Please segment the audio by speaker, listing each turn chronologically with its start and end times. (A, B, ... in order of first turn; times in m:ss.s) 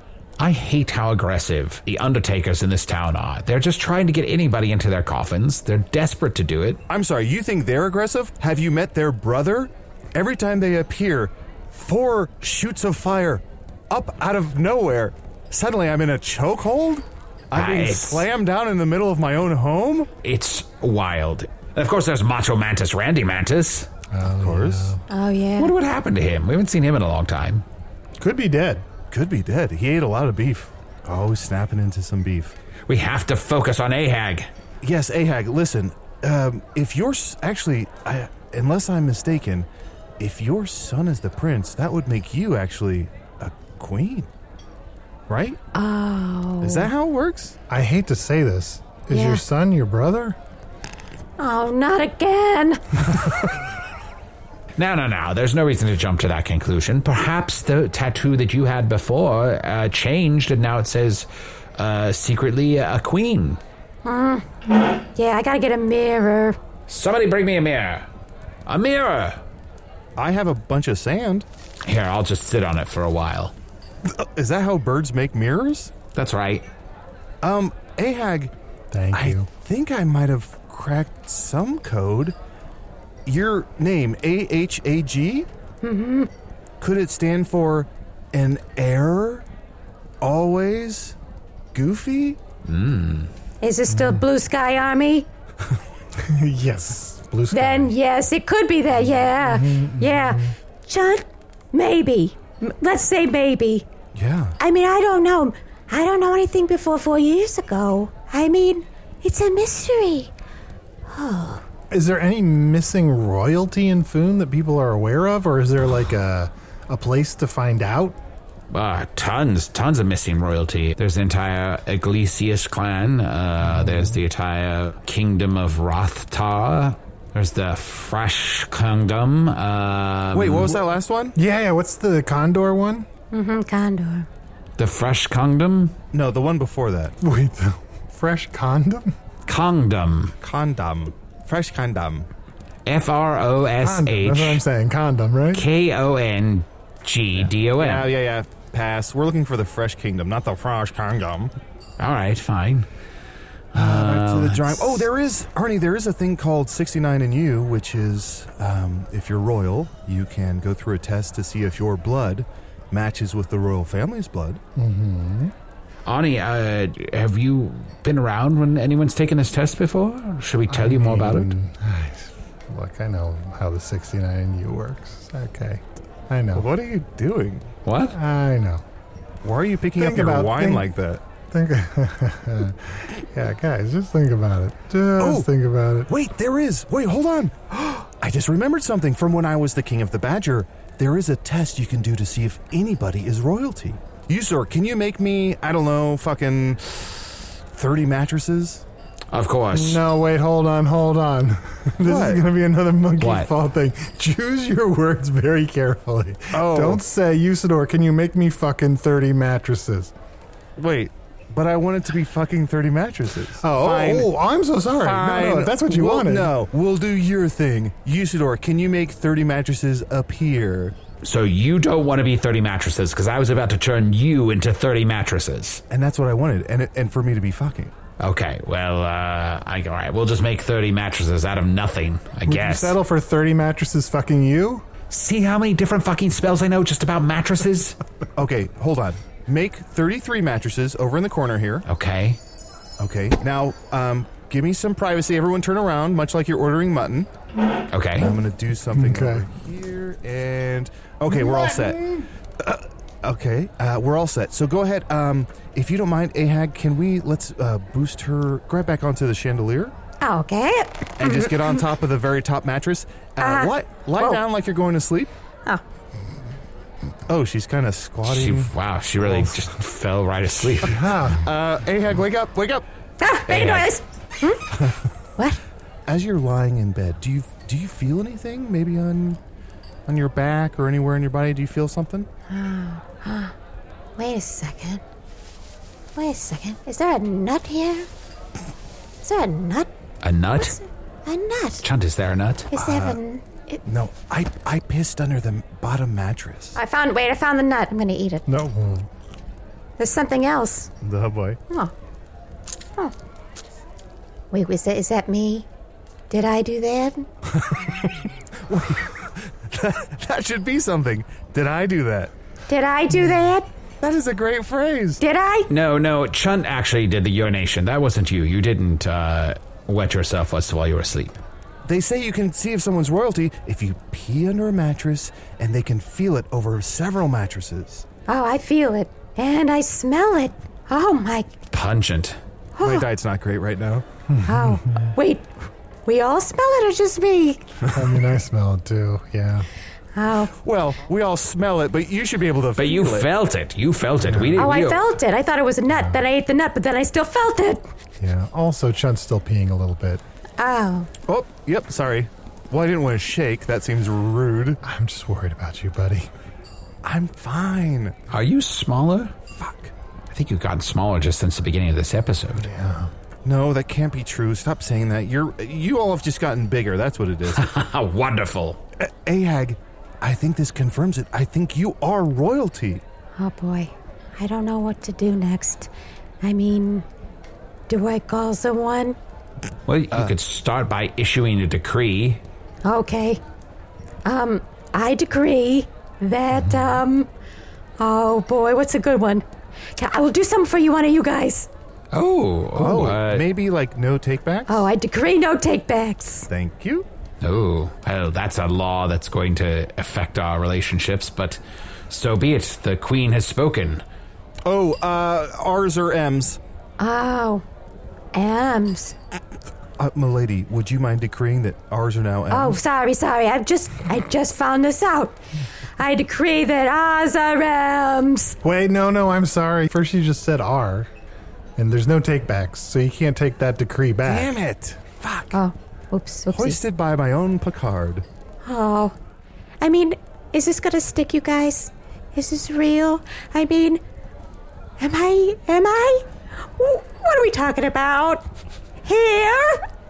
0:00.4-0:06.8 A
0:06.9-0:20.1 B
0:17.5-0:18.3 A
0:20.2-0:23.9 A
0:24.1-0:25.0 C
0:24.4-0:25.0 B
0:25.1-0:25.7 D
0:25.6-0:27.6 A
0:28.2-0:28.9 C
0:29.1-0:32.6 B
0:32.9-0:34.5 A
0:34.8-0:39.7 B
0:40.2-0:44.3 B
0:45.3-0:45.6 B
0:45.7-0:46.9 D
0:46.6-0:47.6 B
0:47.7-0:50.4 C
0:49.1-0:49.4 D
0:51.4-0:52.8 D
0:54.8-1:03.6 A
1:04.0-1:06.6 D
1:06.9-1:08.1 A
1:08.7-1:09.4 A
1:10.2-1:11.5 B
1:11.8-1:13.5 A
1:14.0-1:15.9 B
1:16.1-1:16.6 A
1:17.4-1:18.5 B
1:18.9-1:19.5 C
1:19.1-1:22.4 B
1:23.3-1:25.5 B
1:25.8-1:26.3 D
1:26.8-1:29.4 B
1:30.2-1:31.2 B
1:31.7-1:32.4 B
1:32.6-1:33.3 A
1:33.6-1:35.3 D
1:33.9-1:34.3 C
1:36.2-1:37.9 C
1:37.5-1:43.9 D
1:39.2-1:40.6 C
1:44.2-1:44.6 B
1:44.6-1:50.3 D
1:51.1-1:51.6 D
1:51.9-1:58.2 C
1:58.7-2:10.8 A
2:03.6-2:04.2 C
2:10.3-2:11.4 B
2:11.4-2:13.1 C
2:13.3-2:14.3 D
2:14.8-2:16.0 A
2:16.1-2:17.2 B
2:17.2-2:19.2 C
2:19.5-2:20.4 A
2:20.4-2:22.3 B
2:22.9-2:24.6 A
2:23.8-2:25.7 C
2:25.5-2:28.1 A
2:27.4-2:31.5 B
2:32.0-2:32.9 A
2:33.7-2:35.1 A
2:33.7-2:44.6 B
2:44.8-2:45.5 C
2:46.1-2:51.5 A
2:50.7-2:56.7 C
2:56.5-2:57.6 B
2:57.8-2:58.2 A
2:58.1-2:58.8 C
2:59.4-3:01.2 B
3:00.0-3:00.9 C
3:01.5-3:06.1 C
3:05.2-3:05.5 B
3:06.1-3:18.8 B
3:19.3-3:20.0 A
3:19.7-3:30.1 C
3:22.0-3:22.5 B
3:23.2-3:23.5 A
3:26.5-3:27.0 B
3:30.8-3:34.3 B
3:33.6-3:36.5 C
3:35.0-3:41.0 B
3:41.2-3:45.8 A
3:45.9-3:47.9 B
3:48.2-3:53.0 A
3:52.5-3:54.8 C
3:55.1-3:58.0 A
3:58.4-4:01.8 B
4:01.9-4:02.4 A
4:03.0-4:07.3 B
4:07.9-4:08.4 A
4:08.2-4:19.9 B
4:08.9-4:09.5 C
4:11.3-4:12.2 C
4:20.2-4:21.8 D
4:21.2-4:25.3 B
4:23.4-4:24.4 D
4:27.3-4:29.7 B
4:28.2-4:31.0 A
4:30.8-4:31.4 C
4:31.0-4:32.9 B
4:33.2-4:34.6 D
4:33.5-4:33.9 A
4:36.1-4:39.4 B
4:40.1-4:42.3 B
4:42.5-4:43.5 D
4:44.2-4:45.0 D
4:46.2-4:48.1 D
4:49.2-4:49.9 D
4:50.2-4:50.8 A
4:50.6-4:51.8 D
4:51.8-4:52.7 A
4:52.7-4:53.8 D
4:52.7-4:53.2 B
4:53.9-4:56.8 B
4:56.8-4:58.4 D
4:58.5-4:59.1 C
5:00.0-5:00.9 D
5:01.0-5:01.6 B
5:04.5-5:05.7 D
5:06.3-5:07.3 D
5:07.6-5:08.1 B
5:08.6-5:12.3 B
5:12.7-5:13.7 D
5:14.0-5:15.2 B
5:15.2-5:15.7 D
5:15.7-5:21.4 A
5:21.9-5:28.1 B
5:28.3-5:31.5 D
5:31.7-5:32.4 A
5:32.8-5:33.1 D
5:32.8-5:34.0 B
5:34.3-5:35.1 C
5:34.5-5:35.5 D
5:36.1-5:37.7 D
5:37.9-5:39.7 C
5:40.2-5:40.5 D
5:40.6-5:43.3 B
5:42.8-5:45.2 A
5:44.3-5:44.6 B
5:44.6-5:47.9 D
5:45.9-5:46.2 C
5:48.2-5:50.2 C
5:50.6-5:51.1 D
5:51.3-5:54.8 B
5:54.8-5:56.3 C
5:57.0-5:58.2 B
5:58.3-5:59.3 A
5:59.5-5:59.9 B
6:00.3-6:02.7 A
6:02.6-6:03.1 C
6:03.4-6:07.7 B
6:07.5-6:08.8 A
6:09.0-6:13.0 B
6:13.4-6:15.9 D
6:16.4-6:17.0 D
6:17.9-6:19.2 D
6:19.9-6:22.4 A
6:22.8-6:23.4 D
6:24.2-6:27.3 D
6:26.5-6:27.0 C
6:28.0-6:29.4 D
6:30.0-6:31.7 D
6:32.1-6:33.5 A
6:32.8-6:34.9 B
6:34.7-6:36.5 D
6:36.5-6:37.1 B
6:37.4-6:44.0 A
6:44.6-6:46.6 B
6:47.0-6:47.6 D
6:48.3-6:49.2 D
6:50.0-6:52.8 B
6:52.5-6:55.4 D
6:56.0-6:58.6 D
6:58.6-7:01.1 C
7:01.8-7:04.5 C
7:04.2-7:05.6 B
7:05.5-7:06.8 D
7:06.5-7:08.2 B
7:08.6-7:09.2 D
7:09.8-7:14.0 D
7:15.0-7:18.4 D
7:19.0-7:19.8 D